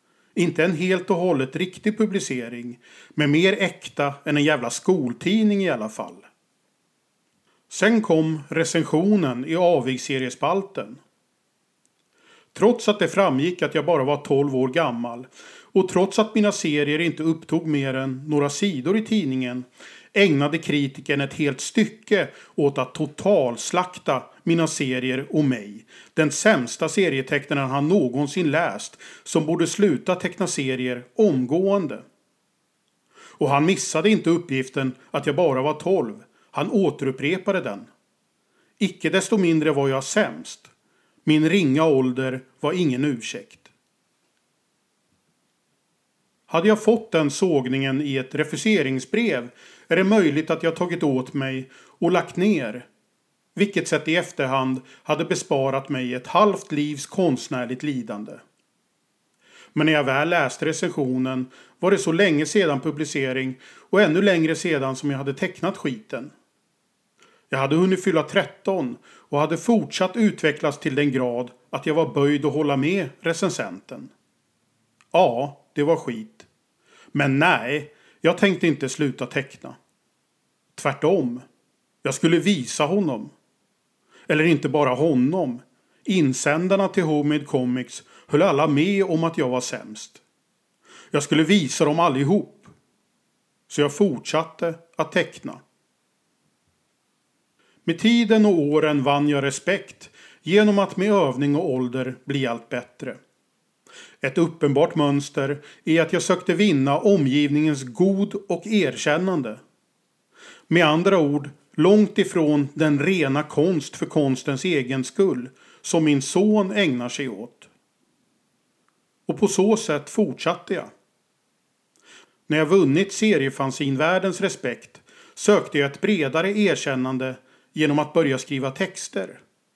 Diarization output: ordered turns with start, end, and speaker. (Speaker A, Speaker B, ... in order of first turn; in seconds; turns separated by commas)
Speaker A: 0.3-6.3, Speaker A: 7.7-11.0, Speaker A: 12.5-32.0, Speaker A: 33.4-37.9, Speaker A: 38.8-40.7, Speaker A: 41.2-43.7, Speaker A: 46.5-52.9, Speaker A: 53.5-58.4, Speaker A: 59.7-66.3, Speaker A: 67.5-74.1, Speaker A: 75.1-76.5, Speaker A: 77.1-79.8, Speaker A: 80.7-81.4, Speaker A: 82.0-83.3, Speaker A: 84.3-90.2, Speaker A: 91.1-92.7, Speaker A: 93.7-95.6, Speaker A: 97.8-103.2, Speaker A: 104.2-109.6, Speaker A: 110.7-117.7, Speaker A: 119.3-120.9, Speaker A: 122.5-129.4